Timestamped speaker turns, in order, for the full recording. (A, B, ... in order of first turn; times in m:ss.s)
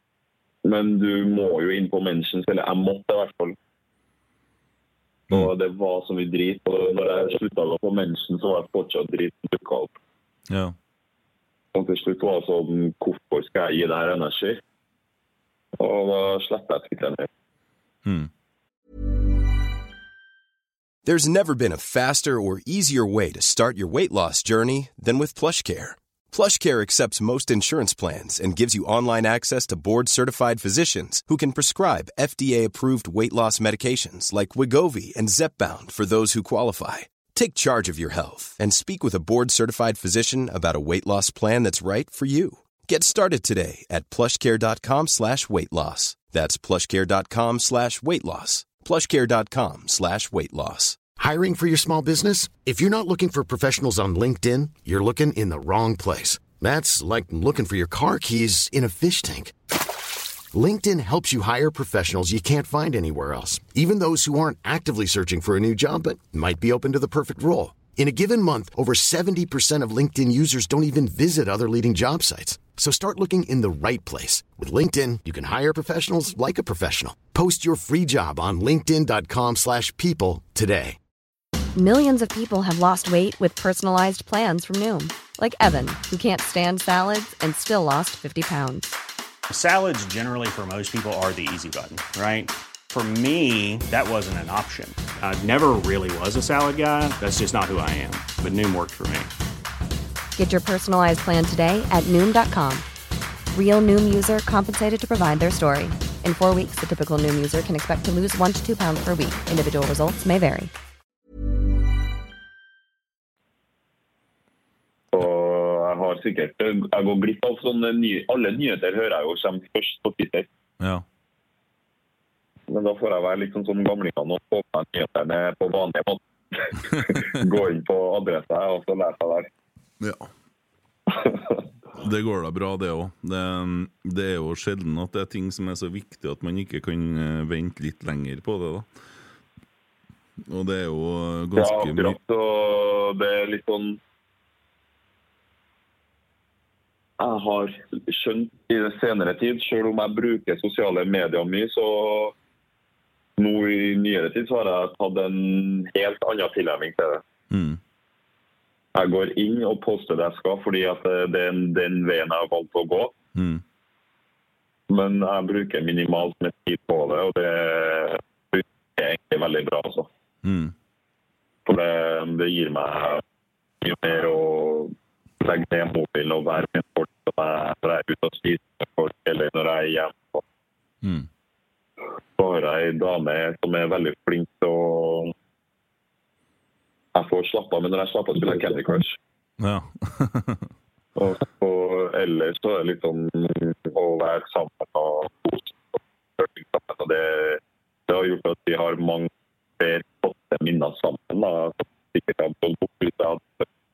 0:00.6-0:03.6 A
0:05.3-0:10.0 A
0:10.5-0:10.8 B
0:11.7-0:14.6 A
0:15.8-0:17.3 A
0:18.0-0:18.3 B
0:21.0-0:51.0 C
0:51.2-0:59.6 D
1:00.5-1:21.0 D
1:21.8-1:28.9 E
1:29.5-1:39.3 F
1:40.4-1:42.9 E
1:43.5-1:50.7 E
1:55.1-2:00.5 A
2:00.8-2:01.0 B
2:02.7-2:09.5 A
2:10.0-2:10.3 B
2:12.0-2:18.9 B
2:20.5-2:22.2 B
2:21.6-2:24.0 A
2:27.2-2:32.3 A
2:33.4-2:37.2 A
2:37.5-2:37.8 B
2:39.0-2:43.1 A
2:43.4-2:43.6 B
2:44.9-2:50.1 A
2:50.4-2:50.7 B
2:51.7-2:53.2 A
2:53.8-3:00.4 A
3:01.0-3:01.3 B
3:02.4-3:05.3 A
3:07.1-3:09.2 A
3:09.6-3:10.7 B
3:11.2-3:23.7 A